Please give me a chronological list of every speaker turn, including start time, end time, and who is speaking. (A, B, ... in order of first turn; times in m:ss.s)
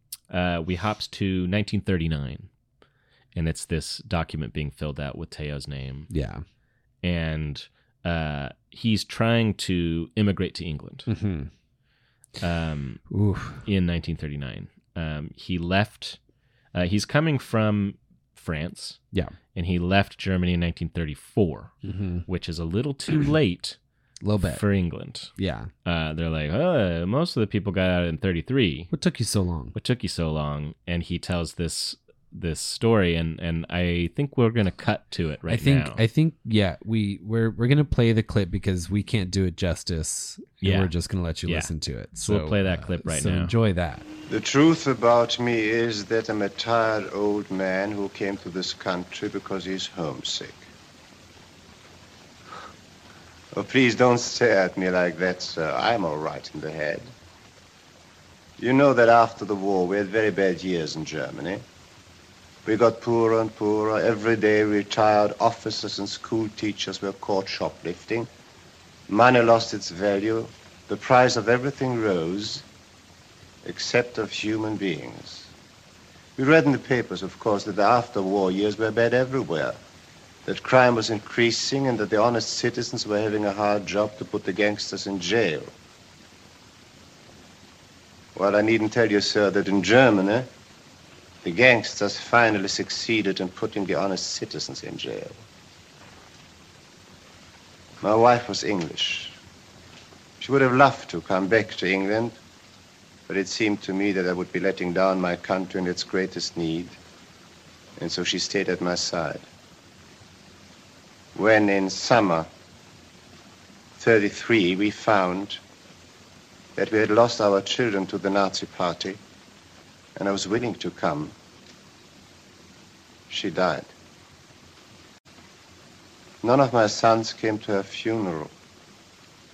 0:00.3-0:02.5 A
0:03.4-0:06.1 A
0:06.1-0:06.4 B
0:07.0-0:11.1 A
0:11.1-0:11.5 B
0:12.4-0:13.0 A
0:13.1-0:13.6 B
0:13.6-0:16.2 A
0:16.7-0:19.0 A
0:19.5-0:21.7 A
0:21.8-0:22.3 B
0:22.3-0:23.8 A
0:24.2-0:24.6 B
0:24.4-0:25.3 A
0:25.4-0:25.7 B
0:25.8-0:28.9 A
0:28.9-0:29.8 B
0:29.7-0:36.0 A
0:35.5-0:44.0 B
0:40.6-0:40.9 A
0:41.4-0:43.5 A
0:44.3-0:50.7 C
0:53.5-0:57.1 C
0:58.6-1:01.6 C
1:02.6-1:08.3 C
1:09.1-1:12.6 C
1:13.6-1:15.5 C
1:16.4-1:19.8 C
1:20.5-1:25.7 C
1:28.4-1:30.5 C
1:31.4-1:35.4 C
1:38.0-1:39.4 C
1:40.4-1:42.4 C
1:43.3-1:47.0 C
1:48.0-1:49.5 C
1:51.4-1:52.5 C
1:54.0-1:55.6 C
1:56.8-1:59.2 C
2:00.2-2:01.3 C
2:03.3-2:03.9 C
2:06.4-2:08.5 C